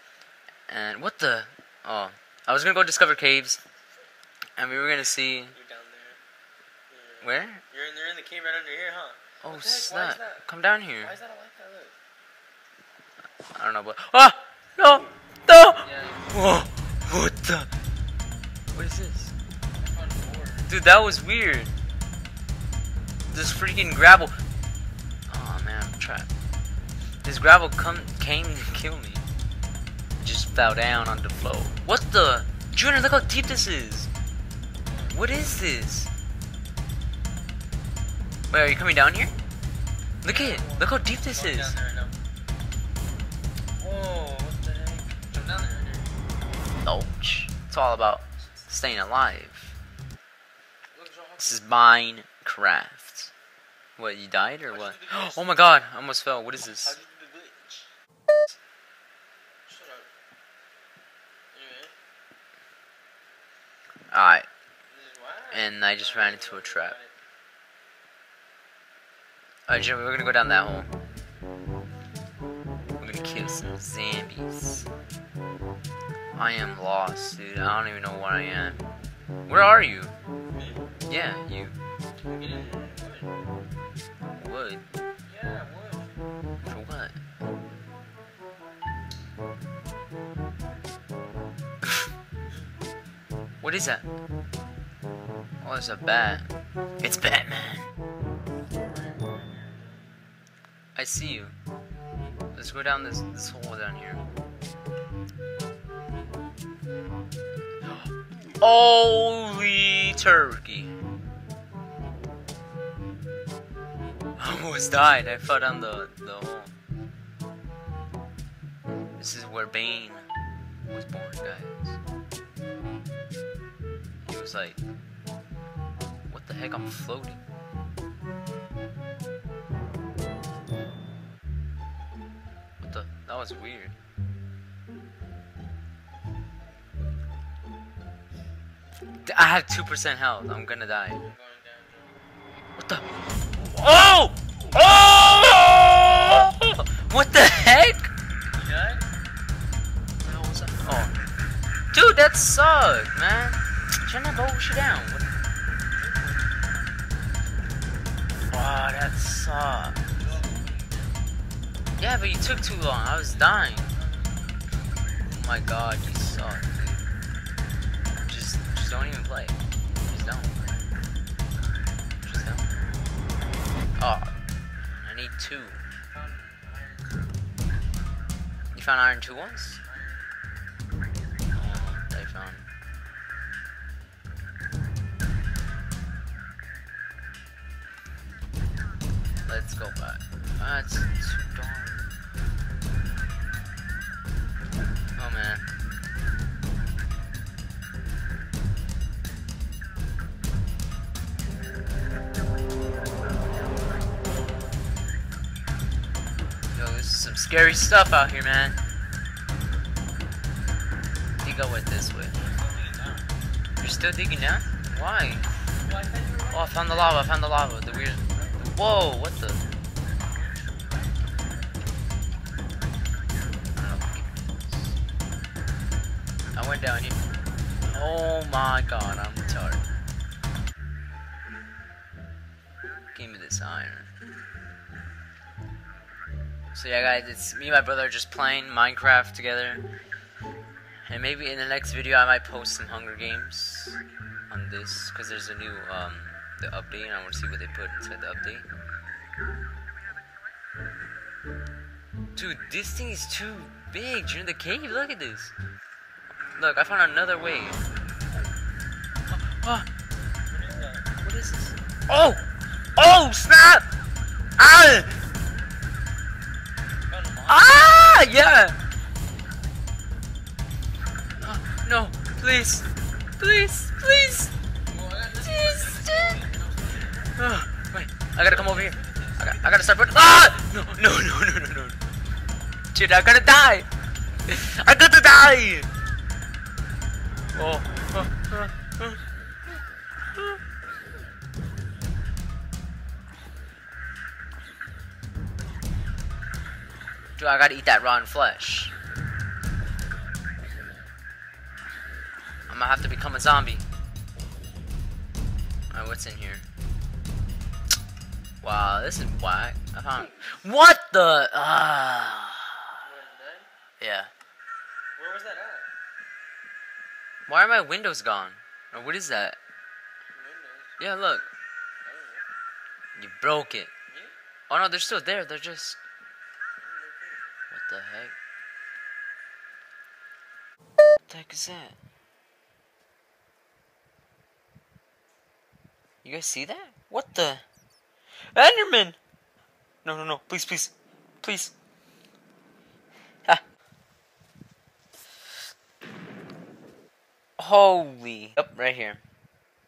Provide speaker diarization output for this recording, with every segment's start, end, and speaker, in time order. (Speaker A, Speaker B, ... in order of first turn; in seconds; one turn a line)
Speaker A: 0.7-3.6
Speaker A: 4.6-5.5
Speaker B: 5.5-6.2
Speaker B: 6.9-10.4
Speaker A: 7.2-7.6
Speaker A: 9.4-11.1
Speaker B: 11.0-11.9
Speaker A: 13.5-17.7
Speaker B: 15.8-16.4
Speaker A: 18.7-19.3
Speaker B: 19.8-20.7
Speaker A: 20.7-21.7
Speaker A: 23.3-24.3
Speaker A: 25.3-26.3
Speaker A: 27.2-29.2
Speaker A: 30.2-34.1
Speaker B: 34.9-35.2
Speaker A: 35.1-36.1
Speaker A: 38.5-39.3
Speaker A: 40.2-41.8
Speaker B: 40.2-42.2
Speaker B: 43.8-46.1
Speaker A: 46.8-49.8
Speaker B: 50.9-51.6
Speaker A: 51.4-53.3
Speaker A: 54.0-57.0
Speaker B: 54.7-55.5
Speaker B: 56.6-57.9
Speaker B: 59.6-60.1
Speaker B: 61.5-61.9
Speaker A: 64.1-64.5
Speaker B: 64.9-67.1
Speaker A: 65.5-67.0
Speaker A: 69.7-70.9
Speaker A: 73.0-74.9
Speaker A: 76.3-78.8
Speaker A: 79.5-80.1
Speaker B: 80.5-80.9
Speaker A: 81.1-81.8
Speaker B: 82.2-83.4
Speaker A: 84.4-84.8
Speaker B: 85.3-86.2
Speaker A: 86.6-87.2
Speaker A: 93.6-94.0
Speaker A: 95.6-96.5
Speaker A: 97.0-97.9
Speaker B: 98.7-100.0
Speaker A: 101.0-101.5
Speaker A: 102.5-104.2
Speaker A: 108.6-110.9
Speaker A: 114.4-116.7
Speaker A: 119.2-120.3
Speaker A: 120.8-122.0
Speaker A: 124.2-124.8
Speaker A: 126.3-127.4
Speaker A: 132.8-133.9
Speaker A: 139.2-141.2
Speaker B: 141.1-142.2
Speaker A: 142.8-143.0
Speaker A: 143.6-148.1
Speaker B: 148.5-149.0
Speaker A: 150.2-151.1
Speaker A: 151.9-155.3
Speaker B: 155.9-156.5
Speaker A: 158.5-160.0
Speaker B: 160.1-161.2
Speaker A: 162.0-163.8
Speaker B: 163.2-164.4
Speaker A: 165.2-167.1
Speaker A: 168.2-170.7
Speaker B: 170.4-170.8
Speaker A: 172.2-172.9
Speaker A: 174.0-174.3
Speaker A: 175.0-175.8
Speaker B: 176.1-177.4
Speaker A: 178.7-179.8
Speaker B: 179.8-180.2
Speaker A: 181.5-182.6
Speaker A: 189.4-192.0
Speaker A: 195.2-195.7
Speaker A: 206.7-208.8
Speaker A: 211.4-212.3
Speaker B: 212.3-213.3
Speaker A: 213.8-215.5
Speaker B: 215.8-217.4
Speaker A: 216.5-219.6
Speaker B: 220.1-221.9
Speaker A: 223.8-224.9
Speaker A: 226.5-227.2
Speaker A: 227.8-229.9
Speaker A: 233.1-234.1
Speaker A: 236.7-239.8
Speaker A: 241.1-248.7
Speaker A: 252.3-255.5
Speaker A: 256.6-257.8
Speaker A: 259.3-259.9
Speaker B: 260.5-261.1
Speaker A: 261.2-262.4
Speaker A: 263.0-263.9
Speaker A: 264.6-265.1
Speaker B: 267.1-268.1
Speaker A: 267.5-268.8
Speaker A: 271.4-272.9
Speaker A: 273.4-274.5
Speaker B: 274.9-277.3
Speaker A: 275.3-276.4
Speaker A: 277.4-282.0
Speaker B: 278.4-279.9
Speaker A: 282.9-283.9
Speaker A: 284.5-285.9
Speaker A: 287.5-289.2
Speaker A: 297.4-298.9
Speaker A: 302.7-303.8
Speaker A: 305.9-306.6
Speaker A: 308.6-312.8
Speaker B: 313.0-313.7
Speaker A: 314.0-314.3
Speaker B: 315.1-315.9
Speaker A: 317.5-319.6
Speaker B: 320.3-321.0
Speaker A: 321.0-321.4
Speaker B: 322.0-322.5
Speaker A: 323.2-323.9
Speaker B: 324.1-324.3
Speaker A: 324.7-326.0
Speaker B: 326.8-327.5
Speaker A: 327.7-328.3
Speaker A: 331.3-331.9
Speaker A: 336.2-337.6
Speaker A: 338.5-339.2
Speaker A: 340.0-341.7
Speaker A: 347.6-349.2